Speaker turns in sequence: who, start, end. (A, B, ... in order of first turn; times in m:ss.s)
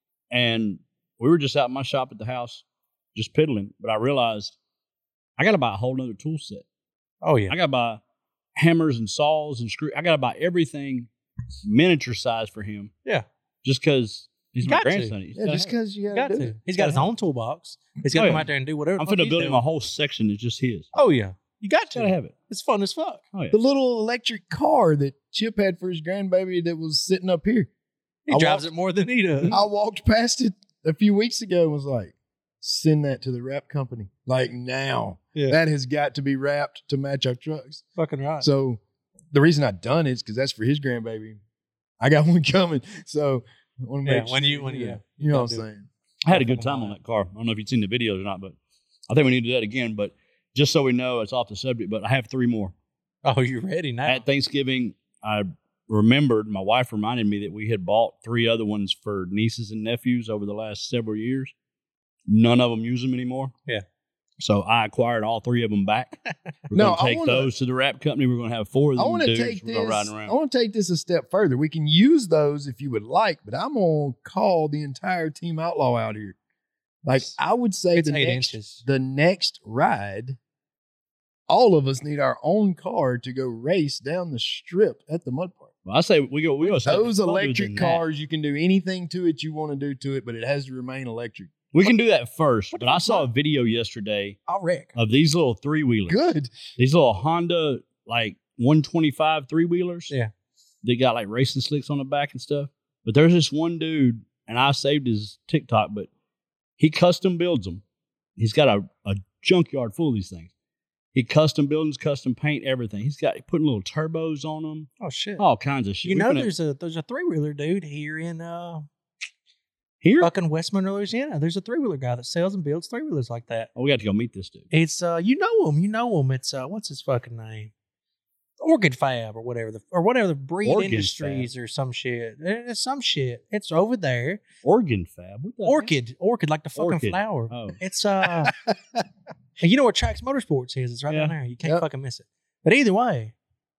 0:00.3-0:02.6 A
0:03.1-0:04.5 A
0:05.4-0:06.6 A
0:07.2-0:07.5 B
0:07.5-0:08.0 A
0:08.6-0:11.1 A
0:11.6-0:12.9 A
0:13.6-0:15.7 A
0:14.6-0:15.1 B
0:15.3-0:17.1 C
0:16.1-0:19.6 B
0:18.1-0:18.5 A
0:19.0-0:20.9 A
0:20.9-0:23.2 B
0:21.9-0:22.3 A
0:23.5-0:27.7 C
0:28.3-0:29.6 B
0:28.3-0:28.7 C
0:29.5-0:37.8 C
0:38.0-0:38.5 B
0:38.4-0:38.8 C
0:39.3-0:41.4 C
0:42.0-0:45.9 C
0:44.0-0:45.6 B
0:46.2-0:48.6 A
0:46.3-0:47.0 B
0:49.1-0:52.7 A
0:53.2-0:54.2 B
0:54.0-1:01.5 A
1:02.3-1:03.5 A
1:04.4-1:06.2 A
1:06.7-1:10.3 A
1:06.7-1:07.5 C
1:09.0-1:16.4 C
1:17.0-1:20.4 C
1:17.9-1:18.8 B
1:21.5-1:25.7 C
1:25.8-1:28.0 A
1:26.6-1:27.1 B
1:26.8-1:31.5 C
1:31.7-1:34.4 A
1:32.7-1:33.3 B
1:34.5-1:34.9 B
1:34.9-1:36.2 A
1:36.1-1:36.6 C
1:36.8-1:40.1 A
1:40.8-1:46.1 A
1:46.8-1:47.8 A
1:48.4-1:50.5 A
1:51.1-1:56.5 A
1:55.0-1:55.4 B
1:56.0-1:58.8 B
2:00.0-2:00.3 A
2:00.2-2:03.7 B
2:03.8-2:04.6 A
2:04.7-2:07.7 B
2:08.6-2:14.4 B
2:10.6-2:11.5 A
2:14.6-2:15.9 A
2:15.6-2:18.6 B
2:16.8-2:17.8 A
2:19.6-2:23.3 B
2:21.1-2:21.3 A